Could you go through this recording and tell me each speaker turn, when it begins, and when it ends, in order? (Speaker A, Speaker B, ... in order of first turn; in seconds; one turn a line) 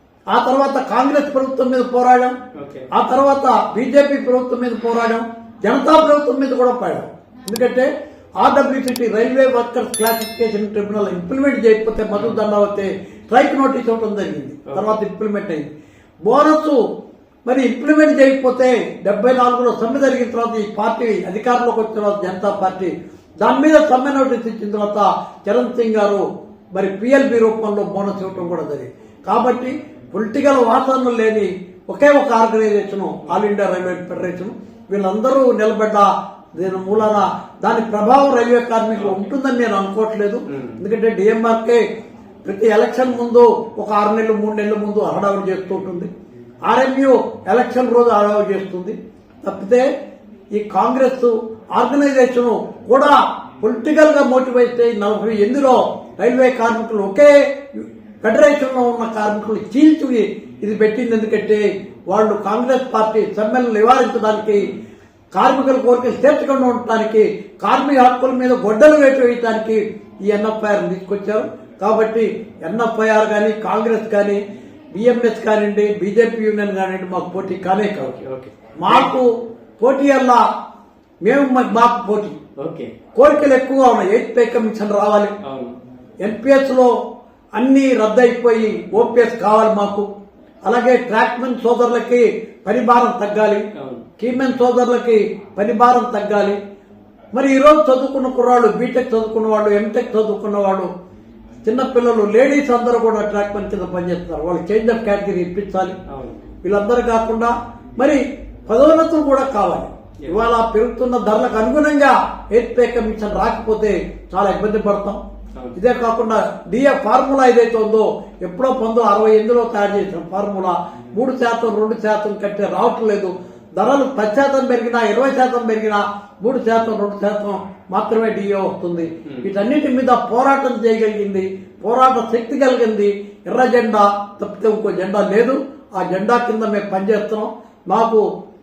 Speaker A: 0.3-2.4
Speaker B: 2.6-2.9
Speaker A: 2.9-15.7
Speaker B: 14.7-14.9
Speaker A: 16.2-16.8
Speaker A: 17.4-41.8
Speaker B: 39.0-39.3
Speaker B: 40.5-40.8
Speaker A: 42.5-46.1
Speaker A: 46.7-49.9
Speaker A: 50.5-64.8
Speaker A: 65.3-74.4
Speaker A: 74.9-78.1
Speaker B: 78.0-79.1
Speaker A: 78.8-80.5
Speaker A: 81.2-82.4
Speaker B: 82.6-82.9
Speaker A: 83.2-85.3
Speaker B: 85.4-85.8
Speaker A: 86.2-86.9
Speaker A: 87.6-90.1
Speaker A: 90.7-93.7
Speaker B: 93.8-94.0
Speaker A: 94.2-96.6
Speaker A: 97.3-100.9
Speaker A: 101.6-106.0
Speaker B: 106.1-106.4
Speaker A: 106.6-115.2
Speaker A: 115.8-138.2